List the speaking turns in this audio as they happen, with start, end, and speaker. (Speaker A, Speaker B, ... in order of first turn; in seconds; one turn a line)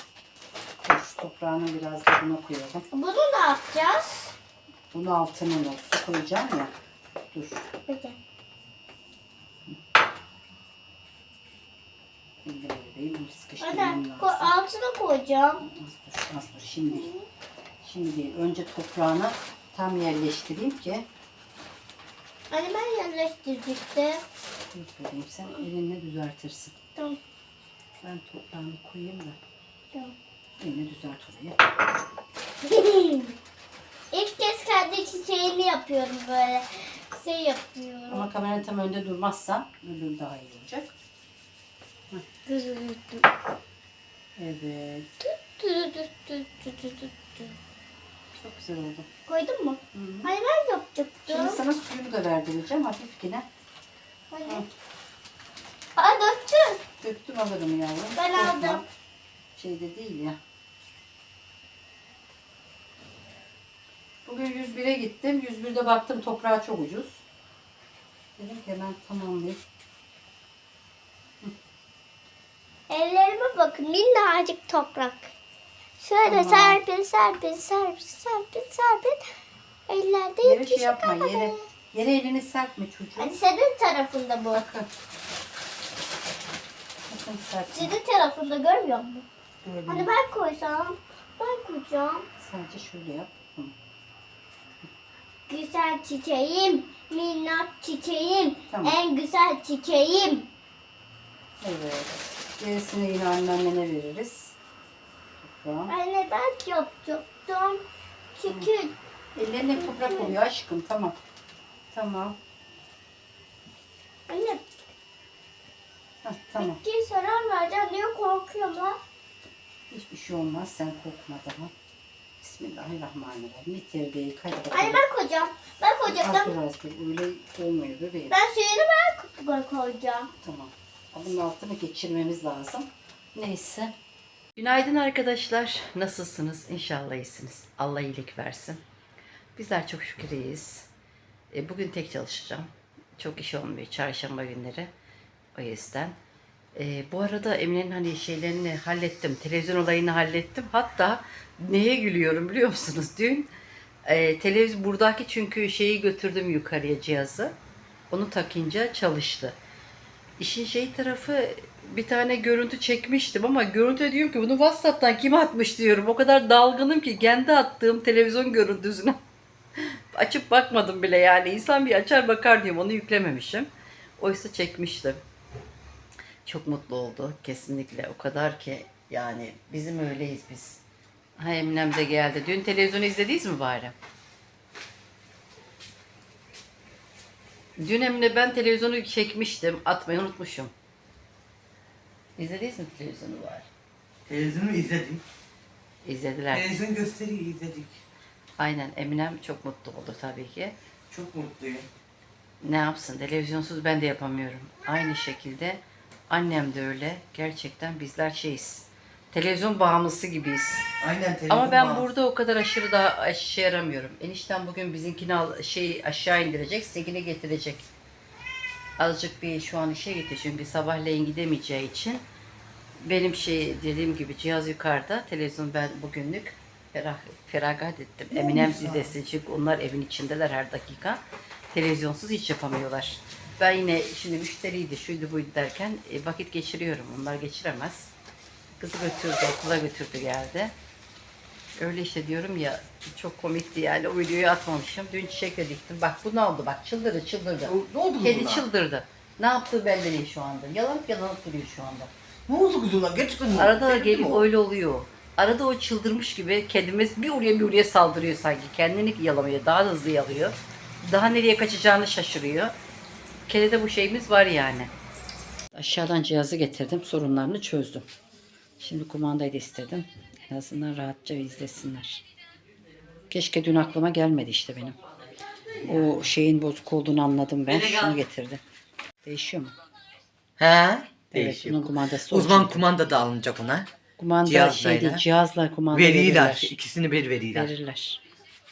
Speaker A: 0.8-2.9
Speaker B: 2.9-4.3
Speaker A: 4.9-6.7
Speaker A: 7.3-7.7
Speaker B: 7.9-8.2
Speaker A: 12.4-14.5
Speaker B: 13.6-15.6
Speaker A: 15.6-17.1
Speaker B: 16.9-17.3
Speaker A: 17.8-21.1
Speaker B: 22.5-24.2
Speaker A: 24.7-26.8
Speaker A: 28.0-29.4
Speaker A: 30.6-31.6
Speaker B: 32.6-33.4
Speaker B: 34.1-38.3
Speaker A: 38.1-40.9
Speaker B: 42.5-43.3
Speaker A: 44.4-45.1
Speaker B: 45.4-47.5
Speaker A: 48.3-49.1
Speaker B: 49.3-51.6
Speaker A: 49.9-50.3
Speaker A: 51.3-53.5
Speaker B: 54.3-54.6
Speaker B: 56.0-56.8
Speaker A: 57.0-58.9
Speaker B: 58.2-58.8
Speaker A: 59.6-60.4
Speaker A: 64.3-67.2
Speaker A: 68.4-69.6
Speaker B: 72.9-75.3
Speaker B: 76.0-79.2
Speaker A: 76.2-76.8
Speaker B: 79.9-81.7
Speaker A: 80.4-83.4
Speaker B: 83.2-84.6
Speaker A: 84.5-84.9
Speaker A: 87.1-88.0
Speaker B: 87.7-89.2
Speaker A: 89.6-90.1
Speaker B: 89.9-92.3
Speaker A: 92.4-93.7
Speaker B: 95.5-100.5
Speaker A: 98.7-99.0
Speaker A: 101.6-104.6
Speaker A: 105.4-105.9
Speaker B: 105.9-107.8
Speaker B: 108.4-109.0
Speaker A: 109.3-111.2
Speaker B: 109.8-110.3
Speaker A: 111.9-112.4
Speaker B: 114.3-114.6
Speaker A: 116.2-116.8
Speaker B: 116.6-119.0
Speaker A: 119.9-121.7
Speaker A: 122.4-125.0
Speaker B: 124.7-126.5
Speaker A: 126.1-128.4
Speaker B: 128.3-130.3
Speaker A: 130.4-133.9
Speaker A: 134.6-138.8
Speaker A: 139.6-140.9
Speaker A: 141.5-144.9
Speaker A: 145.6-146.2
Speaker A: 146.8-153.5
Speaker A: 154.1-157.6
Speaker A: 158.1-159.6
Speaker A: 160.4-169.2
Speaker A: 170.1-175.2
Speaker A: 176.4-180.8
Speaker A: 181.4-183.9
Speaker A: 187.8-190.7
Speaker A: 192.4-193.7
Speaker C: 194.3-195.2
Speaker A: 196.0-196.7
Speaker C: 196.5-198.0
Speaker A: 198.6-200.8
Speaker C: 201.1-201.9
Speaker A: 202.6-210.9
Speaker C: 211.0-212.1
Speaker A: 211.5-217.9
Speaker A: 219.0-222.2
Speaker A: 223.0-238.1
Speaker C: 228.3-229.1
Speaker A: 238.8-240.7
Speaker A: 241.8-252.1
Speaker C: 247.7-248.7
Speaker C: 252.5-254.5
Speaker A: 253.6-262.8
Speaker A: 263.5-264.9
Speaker A: 265.7-268.1
Speaker A: 268.8-272.2
Speaker A: 273.3-275.0
Speaker C: 275.8-276.2
Speaker A: 275.9-278.6
Speaker C: 277.7-278.2
Speaker A: 279.2-279.7
Speaker C: 280.6-283.9
Speaker A: 281.3-282.8
Speaker A: 284.2-286.7
Speaker C: 284.4-285.2
Speaker C: 285.9-287.7
Speaker A: 287.5-288.2